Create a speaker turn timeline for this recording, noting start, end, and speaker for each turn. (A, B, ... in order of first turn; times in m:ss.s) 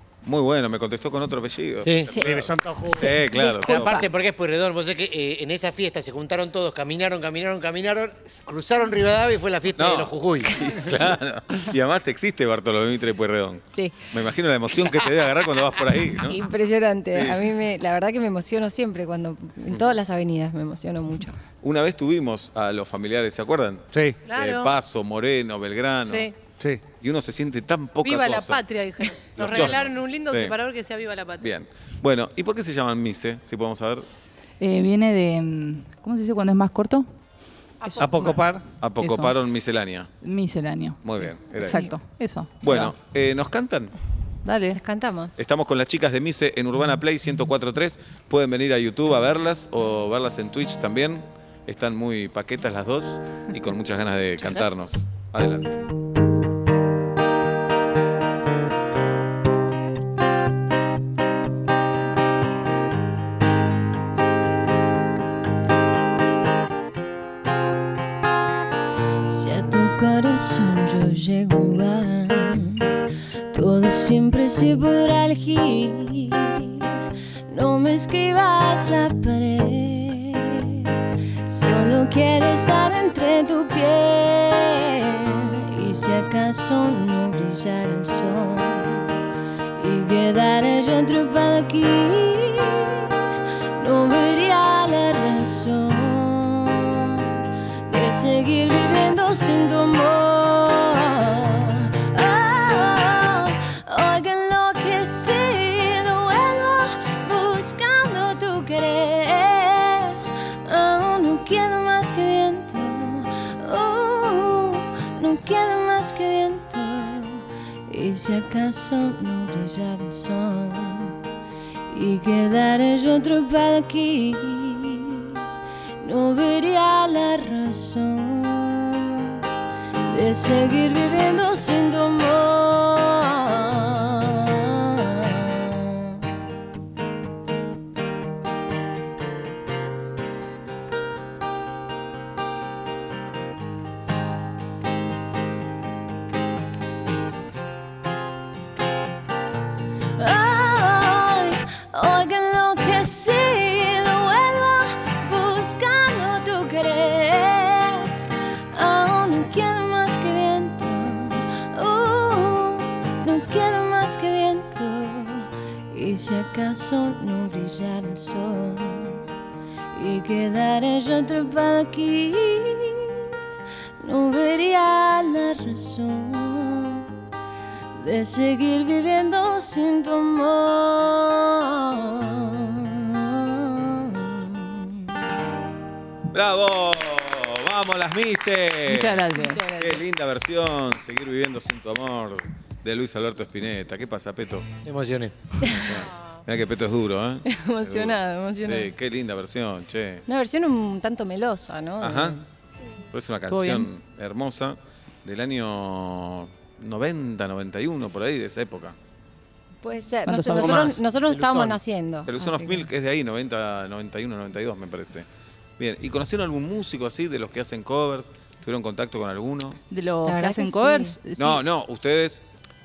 0:00.2-0:04.1 A
0:01.8-0:02.2 B
0:02.1-0:03.4 C
0:02.9-0:04.1 D
0:03.6-0:10.6 B
0:09.8-0:16.4 A
0:13.7-0:14.0 D
0:16.2-0:21.4 D
0:17.1-0:17.5 A
0:21.6-0:26.3 A
0:23.9-0:24.2 C
0:24.3-0:24.7 E
0:26.0-0:26.3 E
0:27.0-0:28.6 A
0:28.0-0:31.5 E
0:29.4-0:30.6 A
0:31.4-0:34.1 A
0:34.6-0:37.1 F
0:37.8-0:38.4 E
0:38.0-0:38.6 C
0:38.8-0:40.1 A
0:39.0-0:39.4 F
0:40.2-0:43.0 F
0:41.0-0:42.0 A
0:41.6-0:41.9 D
0:42.6-0:44.0 A
0:44.4-0:44.8 F
0:44.7-0:45.4 D
0:45.4-0:55.8 A
1:09.3-1:12.9 D
1:13.5-1:16.9 D
1:17.5-1:20.9 D
1:21.5-1:29.2 D
1:29.8-1:33.2 D
1:33.8-1:37.3 D
1:37.9-2:01.2 D
2:01.9-2:05.4 D
2:06.0-2:09.3 D
2:10.1-2:16.2 D
2:30.2-2:38.1 D
2:38.7-2:49.2 D
2:49.9-2:53.3 D
2:54.0-2:57.1 D
2:58.0-3:05.0 D
3:06.3-3:14.7 A
3:08.9-3:09.6 F
3:09.4-3:10.0 D
3:14.8-3:15.3 B
3:15.6-3:15.9 D
3:15.7-3:20.2 A
3:17.5-3:18.9 D
3:20.3-3:22.4 D
3:22.0-3:22.4 A
3:23.1-3:29.0 A
3:23.5-3:23.9 F
3:29.8-3:32.9 D
3:30.3-3:31.0 F
3:31.3-3:31.8 B
3:32.3-3:35.3 A
3:35.8-3:39.8 A
3:39.9-3:41.6 F
3:40.2-3:41.2 D
3:41.4-3:42.4 A